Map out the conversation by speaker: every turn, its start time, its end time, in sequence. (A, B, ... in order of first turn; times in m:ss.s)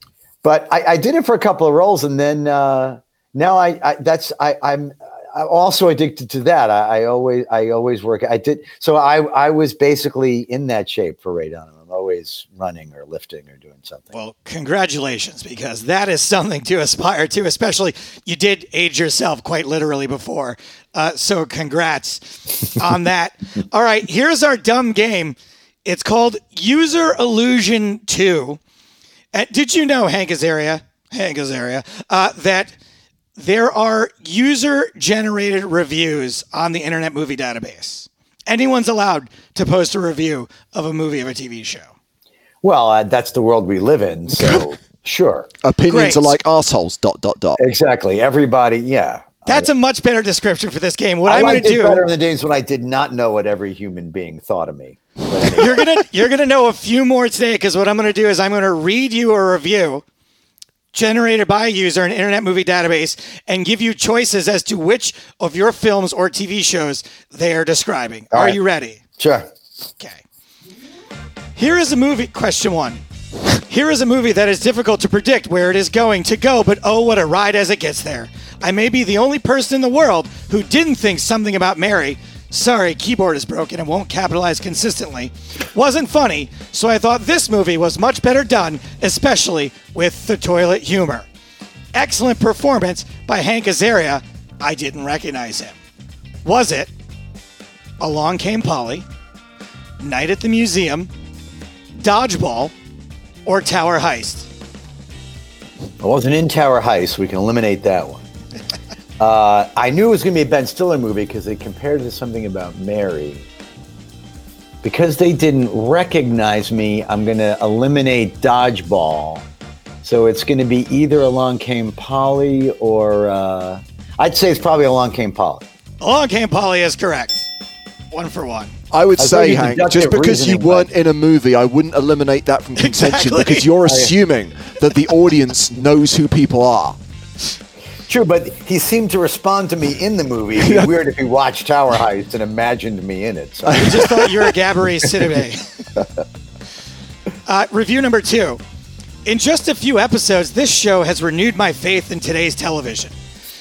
0:00.4-0:14.1 A
0:14.1-0:28.6 B
0:29.3-0:32.7 B
0:33.4-0:41.9 B
0:42.6-0:45.5 A
0:45.6-0:47.6 C
0:45.9-0:46.4 B
0:47.6-0:49.7 A
0:49.5-0:52.0 B
0:51.3-0:55.8 A
0:55.6-1:00.0 B
1:00.9-1:09.0 B
1:08.3-1:08.6 A
1:09.2-1:09.5 A
1:11.6-1:13.0 B
1:13.7-1:31.3 B
1:31.9-1:35.8 B
1:36.4-1:36.9 B
1:38.0-1:39.1 B
1:40.0-1:41.1 B
1:42.0-1:42.7 B
1:43.4-1:44.5 B
1:46.0-1:48.2 A
1:49.2-1:53.4 A
1:54.8-1:59.4 A
2:00.0-2:05.6 A
2:06.0-2:07.5 B
2:08.1-2:08.7 B
2:08.9-2:17.0 C
2:09.2-2:10.9 A
2:12.8-2:13.7 B
2:13.8-2:14.1 A
2:18.1-2:24.3 A
2:20.6-2:20.9 C
2:23.7-2:25.7 B
2:27.4-2:28.6 B
2:29.2-2:33.1 B